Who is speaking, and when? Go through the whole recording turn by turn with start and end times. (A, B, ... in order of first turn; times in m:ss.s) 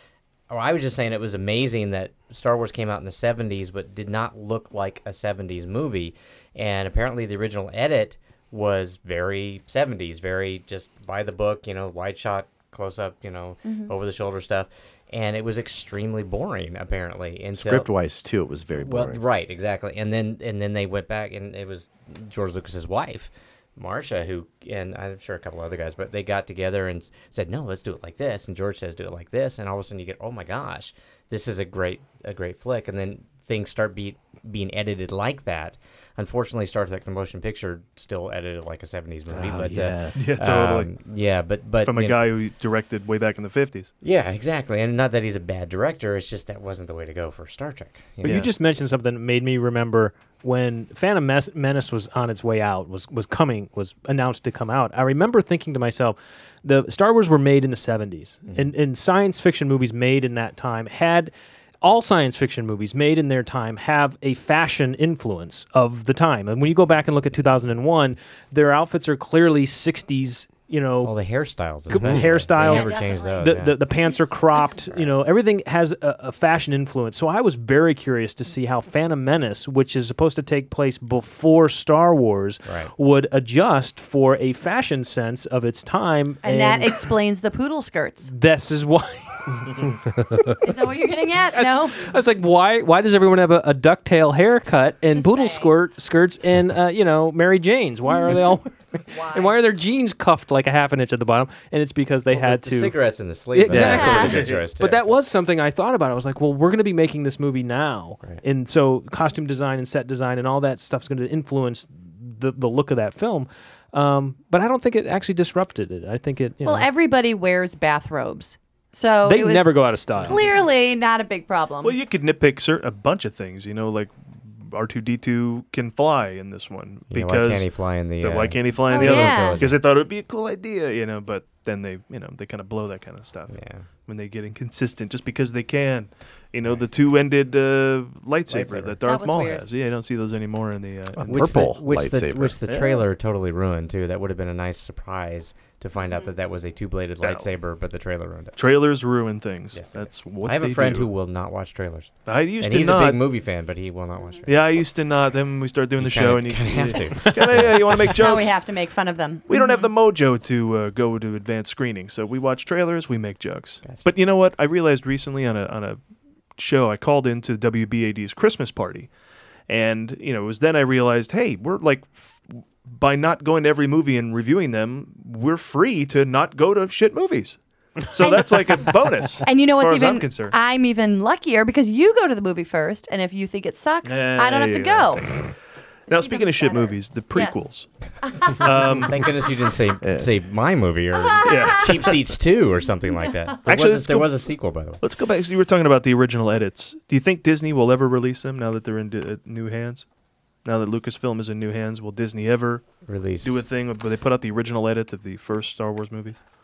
0:00.5-0:17.9 A
0:13.6-0:13.9 B
0:17.5-0:19.2 C
0:18.8-0:42.2 A
0:39.3-0:40.2 C
0:40.2-0:40.9 D
0:41.8-0:43.9 D
0:44.0-0:48.4 A
0:48.2-1:11.1 E
0:58.5-0:58.7 A
1:11.0-1:13.8 A
1:11.9-1:27.0 E
1:12.6-1:13.5 B
1:14.9-1:15.2 A
1:22.6-1:22.9 A
1:26.4-1:28.3 B
1:28.3-1:30.0 E
1:30.6-1:32.1 B
1:31.5-1:43.0 E
1:35.1-1:35.7 B
1:38.1-1:38.4 B
1:39.1-1:39.6 B
1:42.3-1:45.2 A
1:43.5-1:56.9 E
1:43.9-1:44.3 B
1:44.1-1:44.7 D
1:56.6-2:02.0 B
1:59.2-2:00.4 E
2:01.8-2:21.4 D
2:07.1-2:09.8 A
2:08.9-2:09.6 B
2:13.5-2:13.9 A
2:18.5-2:19.0 A
2:19.0-2:19.6 B
2:21.2-2:22.6 C
2:21.2-2:28.6 A
2:27.2-2:27.5 D
2:28.6-2:31.1 D
2:29.7-2:34.9 A
2:32.3-2:33.2 D
2:34.5-2:38.5 D
2:36.0-2:38.1 A
2:38.1-2:39.9 B
2:39.5-2:46.0 D
2:46.6-2:49.1 D
2:49.7-3:00.6 D
2:59.4-3:05.2 B
3:04.0-3:05.6 D
3:06.1-3:07.9 D
3:06.1-3:07.7 B
3:08.5-3:09.2 D
3:08.9-3:15.0 A
3:10.0-3:10.3 C
3:11.4-3:12.2 D
3:13.7-3:20.1 D
3:20.6-3:26.4 D
3:23.0-3:23.6 A